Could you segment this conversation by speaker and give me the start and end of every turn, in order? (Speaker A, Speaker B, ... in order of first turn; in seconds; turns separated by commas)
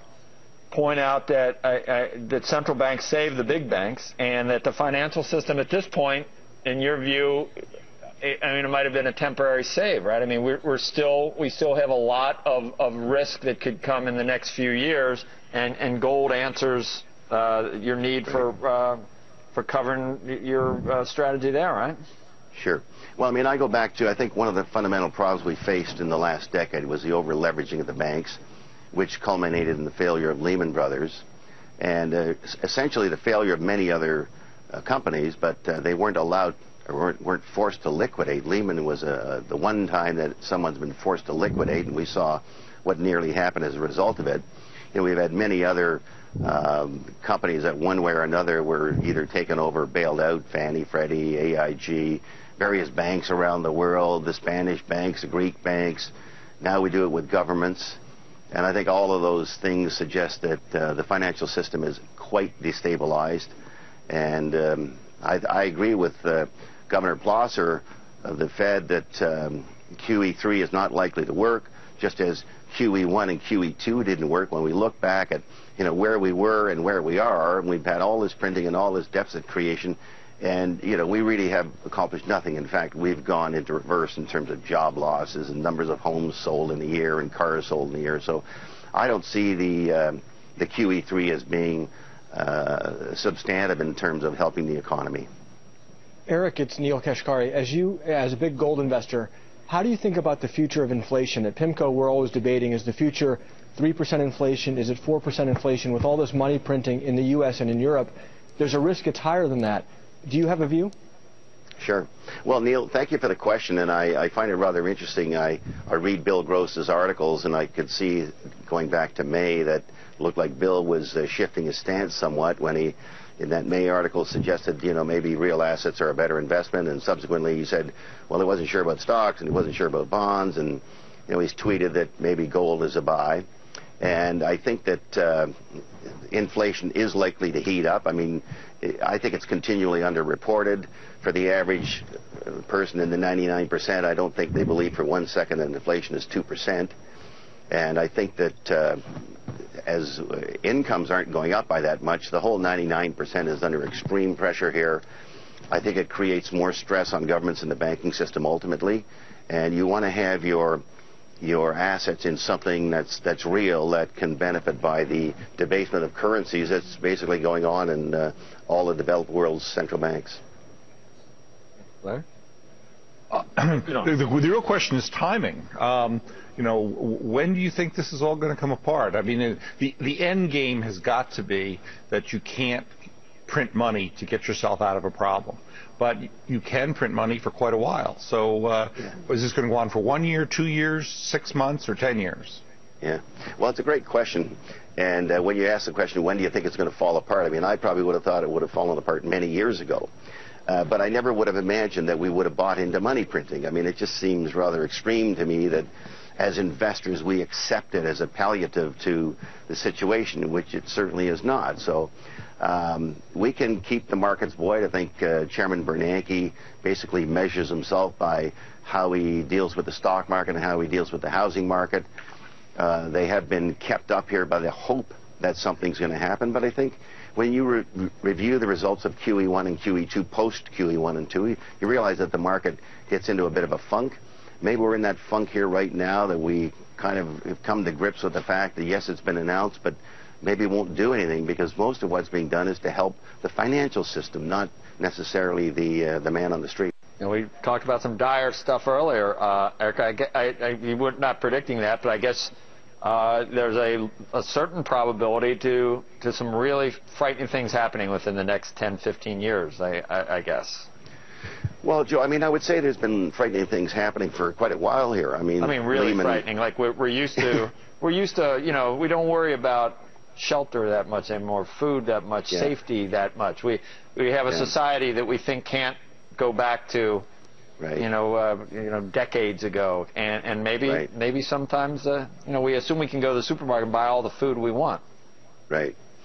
Speaker A: 0.7-7.5, Speaker A: 8.2-22.0, Speaker B: 22.5-28.4, Speaker B: 28.9-31.2, Speaker B: 31.8-58.0, Speaker B: 58.5-63.5, Speaker B: 64.1-95.3, Speaker C: 96.3-110.9, Speaker B: 111.8-133.4, Speaker B: 134.0-135.5, Speaker B: 136.3-146.9, Speaker B: 147.7-149.0, Speaker B: 149.8-155.0, Speaker B: 155.7-160.8, Speaker B: 161.4-170.4, Speaker D: 173.3-182.9, Speaker D: 183.5-192.6, Speaker B: 193.0-200.1, Speaker B: 200.7-222.1, Speaker B: 222.8-246.9, Speaker A: 247.2-260.9, Speaker B: 261.8-266.4, Speaker A: 265.6-277.2, Speaker B: 277.8-278.1, Speaker A: 277.9-285.0, Speaker B: 285.7-285.9